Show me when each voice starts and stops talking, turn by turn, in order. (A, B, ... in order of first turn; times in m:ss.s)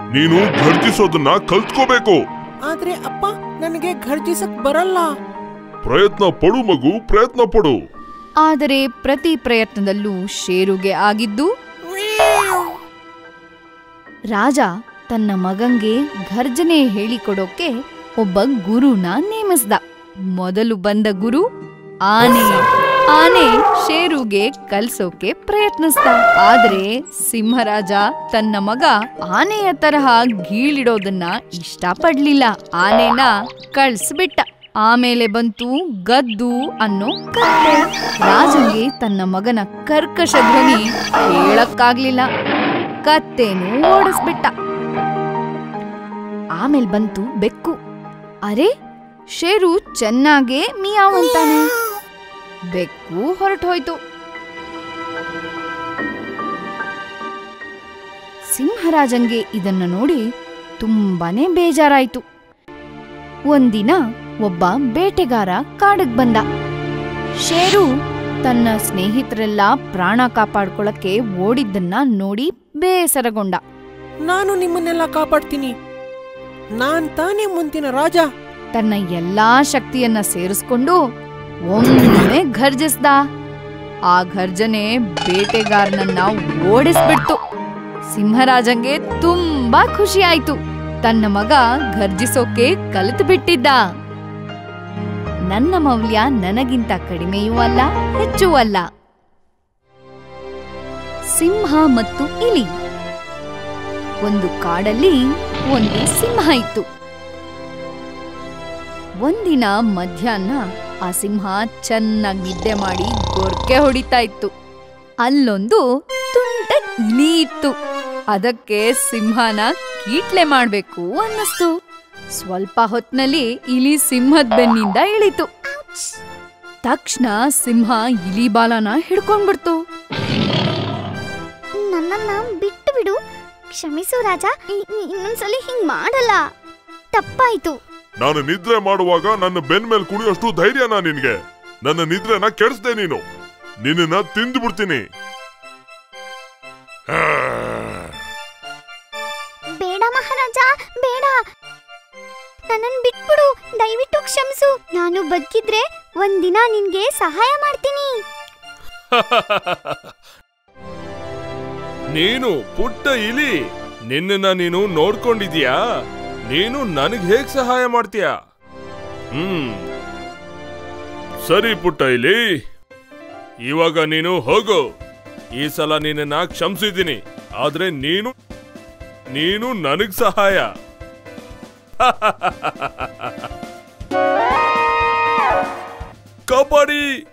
0:00.2-0:02.2 A
0:02.7-0:05.1 B
0:05.9-0:07.8 A
0:08.4-0:11.5 C
0:14.3-0:19.8 C
0:20.4-0:21.4 C
0:22.1-0:42.3 C
0:43.0-0:44.5 C
0:46.6-0:47.8 C
0:49.4-0:51.6 C
0:52.7-0:54.0 C
0:58.5-1:00.2 C
1:00.8-1:02.2 C
1:03.5-1:06.4 C
1:07.4-1:07.9 C
1:08.4-1:13.6 C
1:14.3-1:15.7 B
1:16.8-1:18.2 B
1:18.7-1:21.0 C
1:21.7-1:23.2 C
1:24.1-1:27.4 C
1:28.1-1:33.8 C
1:35.5-1:38.8 C
1:41.3-1:42.7 C
1:44.2-1:46.9 C
1:49.2-1:54.5 C
1:55.2-1:57.7 C
1:58.3-2:01.7 C
2:02.4-2:05.5 C
2:05.7-2:06.2 D
2:06.8-2:09.8 C
2:11.8-2:13.2 D
2:13.7-2:16.5 D
2:17.1-2:17.8 D
2:18.2-2:21.3 A
2:21.8-2:23.2 A
2:23.8-2:25.0 A
2:27.1-2:28.1 A
2:29.8-2:31.4 D
2:32.7-2:38.2 D
2:39.1-2:40.1 E
2:42.1-2:43.5 E
2:44.1-2:45.8 E
2:46.5-2:48.3 E
2:49.4-2:49.8 E
2:51.5-2:52.4 E
2:53.7-2:54.8 E
2:55.6-2:58.3 E
2:59.4-3:00.7 E
3:02.0-3:03.5 E
3:06.5-3:07.0 E